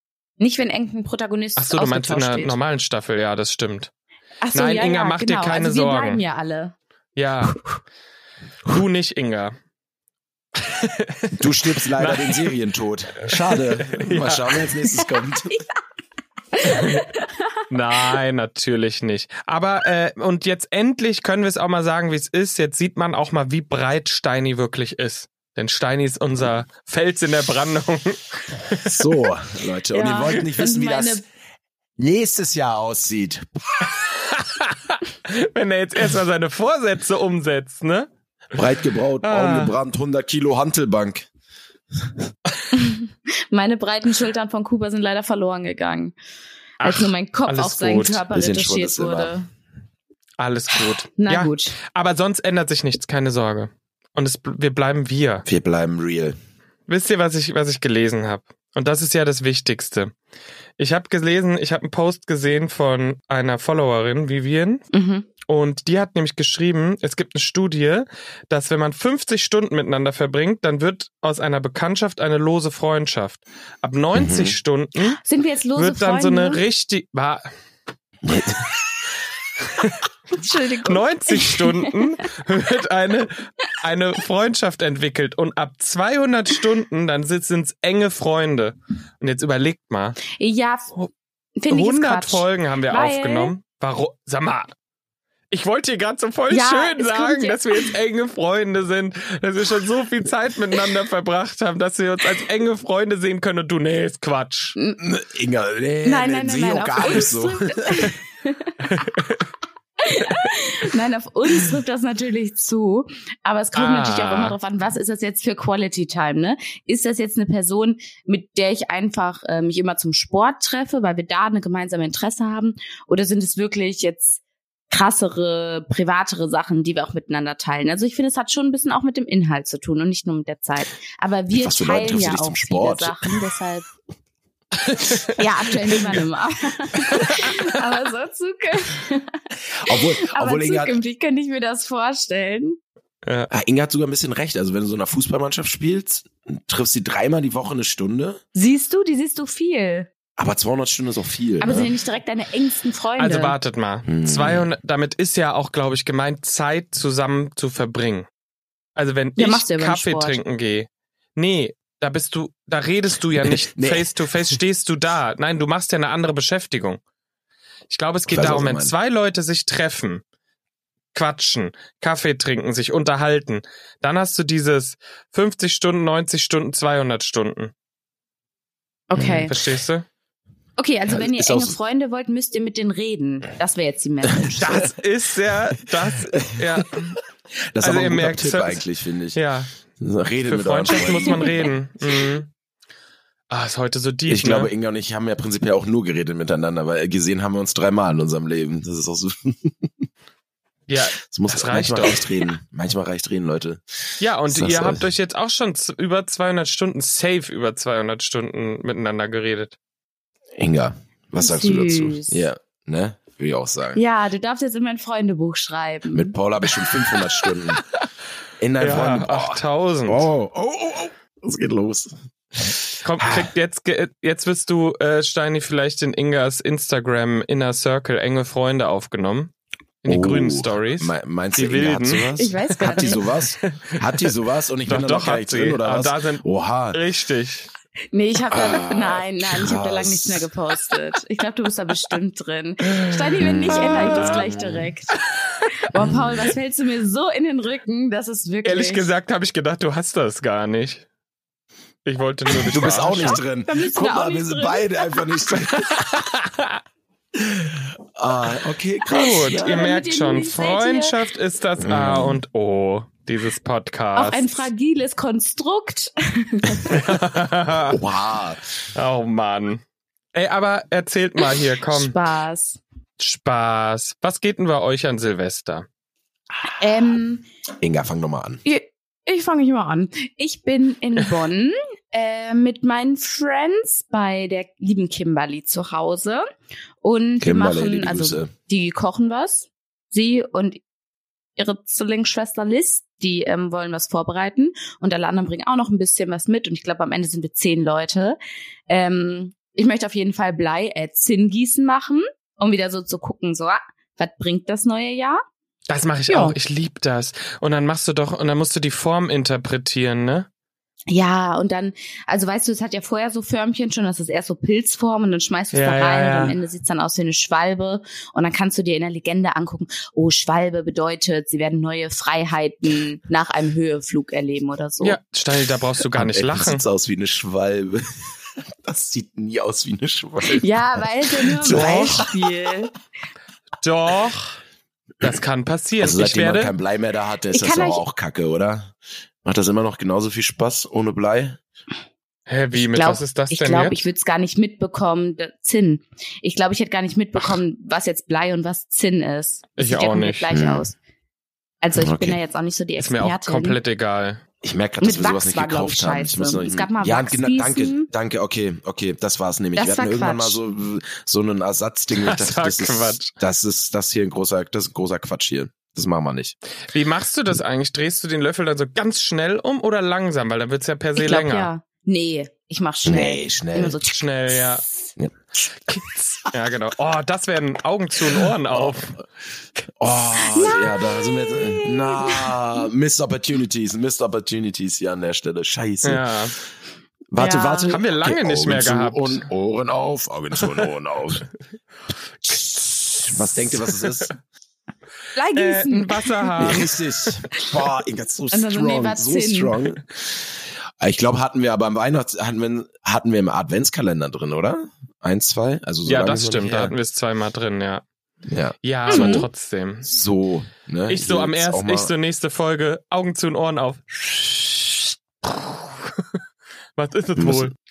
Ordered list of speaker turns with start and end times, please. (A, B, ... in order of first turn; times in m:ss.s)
0:00.4-0:02.6 A
0:01.6-0:03.9 B
0:04.4-0:06.7 A
0:04.5-0:06.2 B
0:07.2-0:07.6 B
0:08.7-0:09.5 B
0:10.6-0:12.5 B
0:11.4-0:15.6 C
0:13.3-0:14.7 B
0:16.5-0:18.2 A
0:16.6-0:17.0 B
0:17.7-0:29.2 B
0:28.8-0:31.2 C
0:29.9-0:31.2 A
0:32.0-0:33.9 C
0:34.0-0:38.1 B
0:38.5-0:41.3 C
0:39.2-0:39.7 B
0:42.7-0:46.1 A
0:46.8-0:48.2 B
0:46.8-0:49.5 A
0:48.3-0:49.3 C
0:50.4-0:55.4 B
0:50.7-0:51.8 A
0:55.4-0:56.4 C
0:56.9-1:00.1 B
1:00.8-1:04.8 B
1:04.9-1:05.3 A
1:05.5-1:15.2 B
1:14.1-1:14.6 C
1:15.2-1:16.6 A
1:15.8-1:17.5 B
1:18.2-1:18.8 C
1:20.3-1:22.2 A
1:20.8-1:30.2 B
1:30.3-1:30.9 A
1:31.6-1:33.5 A
1:31.7-1:34.7 B
1:35.5-1:44.8 B
1:36.5-1:37.9 A
1:45.0-1:48.1 C
1:46.0-1:48.8 A
1:48.8-1:49.4 B
1:50.0-2:04.4 A
1:53.7-1:54.5 B
2:04.9-2:13.9 A
2:11.5-2:13.3 C
2:15.4-2:19.4 A
2:19.8-2:21.0 C
2:19.9-2:22.8 A
2:23.5-2:28.4 C
2:28.5-2:30.1 A
2:30.4-2:31.9 C
2:31.6-2:33.5 A
2:33.2-2:38.2 B
2:34.1-2:34.7 C
2:39.0-2:47.0 B
2:39.4-2:40.4 A
2:43.4-2:44.6 C
2:47.9-2:50.2 B
2:48.3-2:48.9 C
2:51.1-2:57.7 B
2:59.1-2:59.5 A
2:59.2-2:59.5 C
2:59.5-3:00.0 B
3:00.8-3:04.8 A
3:01.1-3:01.7 C
3:04.6-3:07.2 B
3:07.7-3:09.4 C
3:07.8-3:08.8 B
3:09.3-3:09.7 B
3:10.0-3:11.7 C
3:10.5-3:12.5 B
3:10.9-3:11.7 A
3:13.5-3:14.7 B
3:14.3-3:19.9 C
3:20.9-3:22.2 B
3:21.2-3:23.8 C
3:24.2-3:29.8 B
3:24.5-3:25.0 C
3:30.6-3:34.0 C
3:31.4-3:32.5 A
3:33.9-3:36.3 A
3:36.1-3:37.8 C
3:38.6-3:43.5 C
3:38.8-3:40.3 B
3:43.0-3:54.3 B
3:50.1-3:57.0 C
3:52.4-3:53.2 A
3:54.9-3:57.7 B
3:58.1-4:05.2 A
3:58.5-4:00.5 C
4:03.4-4:04.9 C
4:03.7-4:04.5 B
4:05.1-4:05.7 B
4:05.8-4:09.0 A
4:06.0-4:06.5 C
4:08.6-4:11.0 B
4:12.0-4:13.4 B
4:12.6-4:16.3 C
4:13.2-4:14.9 A
4:15.9-4:16.8 B
4:17.4-4:19.8 C
4:19.1-4:24.6 B
4:19.2-4:21.2 A
4:21.8-4:22.4 C
4:24.1-4:27.0 A
4:26.9-4:28.0 B
4:27.9-4:28.7 C
4:28.9-4:29.8 B
4:30.3-4:32.1 B
4:31.4-4:32.8 A
4:33.2-4:35.8 B
4:36.8-4:37.4 A
4:37.8-4:38.6 C
4:38.6-4:46.4 A
4:47.0-4:50.8 A
4:47.4-4:48.5 C
4:51.6-4:58.4 A
4:58.9-5:05.4 A
5:05.9-5:10.5 B
5:06.3-5:06.6 A
5:11.1-5:25.2 A
5:15.7-5:16.6 B
5:25.0-5:26.8 B
5:26.1-5:28.3 C
5:28.8-5:32.2 C
5:30.5-5:32.9 A
5:31.7-5:32.3 B
5:33.8-5:34.6 B
5:35.2-5:36.7 B
5:36.0-5:41.6 C
5:37.5-5:38.0 A
5:42.5-5:44.0 B
5:42.7-5:51.0 A
5:49.8-5:50.5 B
5:50.5-5:50.9 C
5:51.8-5:53.8 A
5:51.9-5:52.4 C
5:53.0-5:54.4 B
5:54.6-6:06.6 C
5:55.0-5:58.1 A
5:59.8-6:00.6 A
6:02.2-6:03.3 B
6:06.9-6:11.7 B
6:11.2-6:14.7 A
6:13.0-6:14.0 C
6:14.0-6:14.8 B
6:15.9-6:19.2 B
6:18.3-6:19.0 C
6:20.0-6:26.3 C
6:20.5-6:22.6 A
6:26.0-6:26.5 B
6:27.3-6:31.5 C
6:27.4-6:28.0 A
6:27.9-6:29.4 B
6:32.5-6:34.2 B
6:33.2-6:34.3 C
6:35.3-6:36.8 A
6:35.5-6:37.3 B
6:36.6-6:40.3 C
6:38.5-6:39.8 A
6:41.0-6:46.9 C
6:46.1-6:48.0 B
6:48.5-6:49.5 C
6:48.8-6:50.1 B
6:49.1-6:49.5 A
6:50.0-6:52.1 C
6:51.1-6:56.2 B
6:57.0-6:57.7 B
6:57.4-6:57.7 C